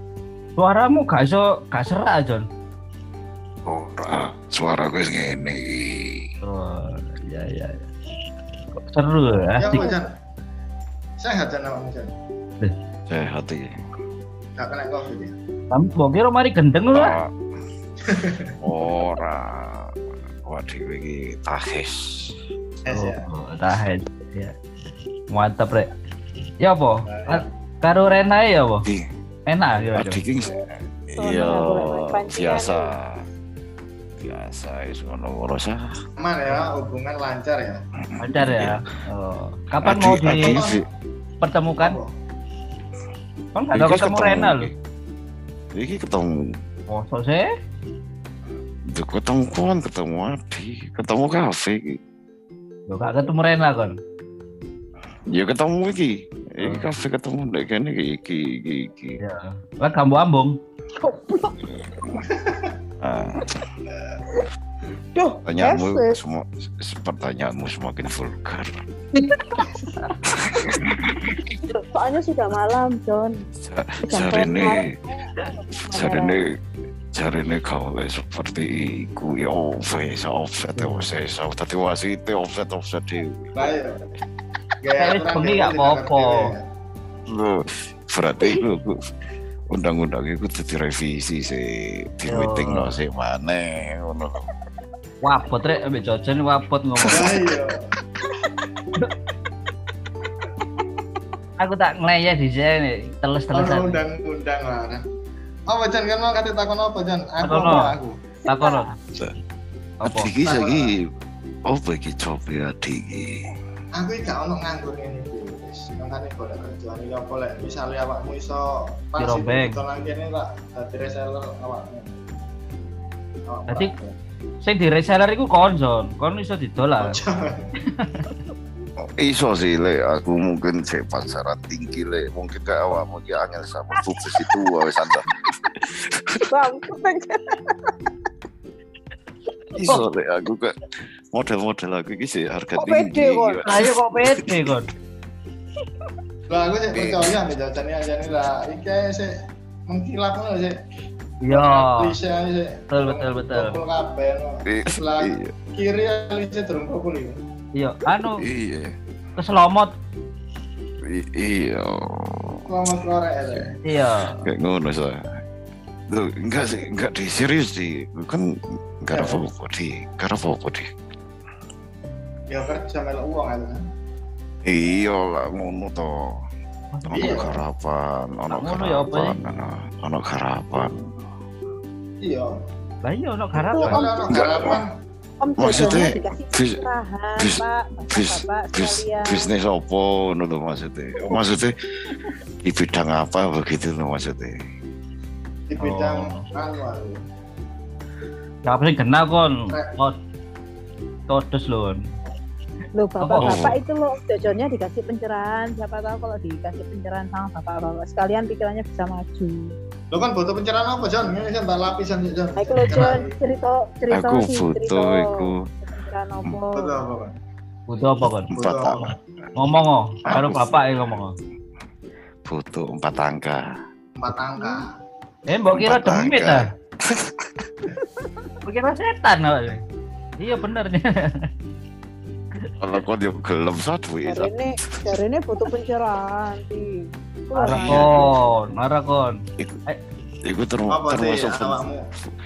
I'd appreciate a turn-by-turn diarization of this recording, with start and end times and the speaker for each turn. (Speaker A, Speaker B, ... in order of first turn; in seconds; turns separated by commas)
Speaker A: 0.6-2.5, Speaker B: 3.6-6.3, Speaker A: 6.4-7.8, Speaker A: 8.8-9.9, Speaker C: 9.6-10.1, Speaker D: 9.7-10.0, Speaker C: 11.2-12.1, Speaker B: 13.1-13.7, Speaker C: 14.6-15.3, Speaker A: 15.7-17.2, Speaker B: 16.9-17.3, Speaker C: 18.1-18.5, Speaker B: 18.6-19.9, Speaker B: 20.4-22.4, Speaker C: 22.9-23.3, Speaker A: 22.9-24.5, Speaker A: 25.3-25.9, Speaker A: 26.6-28.8, Speaker C: 27.1-27.4, Speaker A: 29.5-30.2, Speaker B: 29.9-33.2, Speaker D: 31.2-32.9, Speaker B: 34.2-35.8, Speaker C: 36.2-37.8, Speaker A: 38.2-40.6, Speaker B: 38.3-38.8, Speaker B: 39.8-40.8, Speaker C: 40.2-40.8, Speaker A: 41.4-42.0, Speaker C: 41.8-42.1, Speaker A: 43.5-44.7, Speaker B: 43.7-44.7, Speaker B: 45.7-46.5, Speaker A: 46.9-47.5, Speaker B: 48.9-52.0, Speaker A: 52.9-54.0, Speaker B: 55.3-59.2, Speaker A: 56.6-56.9, Speaker A: 59.2-60.6, Speaker D: 61.0-61.7, Speaker C: 62.3-62.7, Speaker B: 63.0-63.5, Speaker D: 65.1-66.1, Speaker B: 65.5-68.8, Speaker D: 69.1-69.9, Speaker B: 70.3-71.3, Speaker D: 70.5-70.8, Speaker D: 71.4-73.4, Speaker B: 73.6-74.9, Speaker D: 74.0-76.4, Speaker B: 75.9-76.5, Speaker B: 77.1-83.7, Speaker C: 83.5-84.0, Speaker C: 84.8-86.6, Speaker A: 85.0-86.5, Speaker B: 87.3-89.0, Speaker B: 89.7-94.5, Speaker A: 92.3-92.9, Speaker A: 95.2-97.3, Speaker B: 97.0-97.5, Speaker C: 97.1-97.8, Speaker A: 101.6-104.0, Speaker C: 103.5-105.0, Speaker C: 105.7-108.1, Speaker A: 107.4-107.9, Speaker A: 108.5-109.0, Speaker D: 108.6-108.8, Speaker A: 110.0-110.3, Speaker B: 110.0-111.0, Speaker C: 110.4-110.9, Speaker B: 111.7-113.5, Speaker C: 114.0-122.1, Speaker A: 119.2-119.8, Speaker C: 123.5-124.1, Speaker A: 123.7-123.9, Speaker A: 124.6-127.2, Speaker C: 127.0-127.7, Speaker A: 127.9-128.4, Speaker B: 129.0-135.2, Speaker B: 135.8-136.4, Speaker D: 136.4-137.9, Speaker B: 139.8-140.8, Speaker B: 141.3-144.7, Speaker D: 142.8-143.6, Speaker A: 143.6-144.9, Speaker C: 146.5-149.3, Speaker B: 146.9-147.3, Speaker C: 149.9-150.8, Speaker A: 151.4-152.1, Speaker C: 151.5-157.4, Speaker A: 152.9-153.8, Speaker B: 154.7-155.5, Speaker A: 157.8-158.4, Speaker B: 158.3-158.9, Speaker A: 159.4-159.9, Speaker B: 161.0-162.7, Speaker C: 162.7-163.7, Speaker A: 163.8-164.4, Speaker B: 164.4-165.2, Speaker B: 166.1-170.9, Speaker C: 169.1-169.4, Speaker C: 172.5-173.8, Speaker B: 174.6-176.3, Speaker A: 176.9-177.5, Speaker B: 177.1-181.1, Speaker C: 177.1-177.5, Speaker A: 178.5-179.3, Speaker C: 182.2-182.5, Speaker A: 183.0-184.1, Speaker D: 183.6-184.8, Speaker C: 183.8-184.9, Speaker B: 184.3-184.8, Speaker D: 185.4-189.4, Speaker B: 185.6-186.8, Speaker B: 187.3-191.8, Speaker B: 192.6-194.6, Speaker C: 195.7-197.2, Speaker A: 195.8-196.4, Speaker A: 198.6-200.2, Speaker A: 201.3-202.0, Speaker D: 202.9-209.7, Speaker A: 203.2-203.8, Speaker B: 203.4-203.8, Speaker C: 210.1-213.3, Speaker D: 212.6-217.0, Speaker B: 214.1-215.7, Speaker C: 216.7-217.3, Speaker A: 217.9-218.5, Speaker B: 218.5-219.1, Speaker C: 218.5-219.2, Speaker A: 219.6-221.3, Speaker B: 220.3-220.7, Speaker B: 222.4-223.6, Speaker C: 224.2-224.9, Speaker A: 225.5-226.7, Speaker B: 225.7-227.7, Speaker A: 228.6-229.8, Speaker A: 230.4-231.5, Speaker B: 232.8-234.8, Speaker D: 234.3-236.9, Speaker D: 237.5-238.3, Speaker A: 237.6-240.0, Speaker B: 237.7-238.2, Speaker B: 240.4-241.8, Speaker C: 240.9-242.0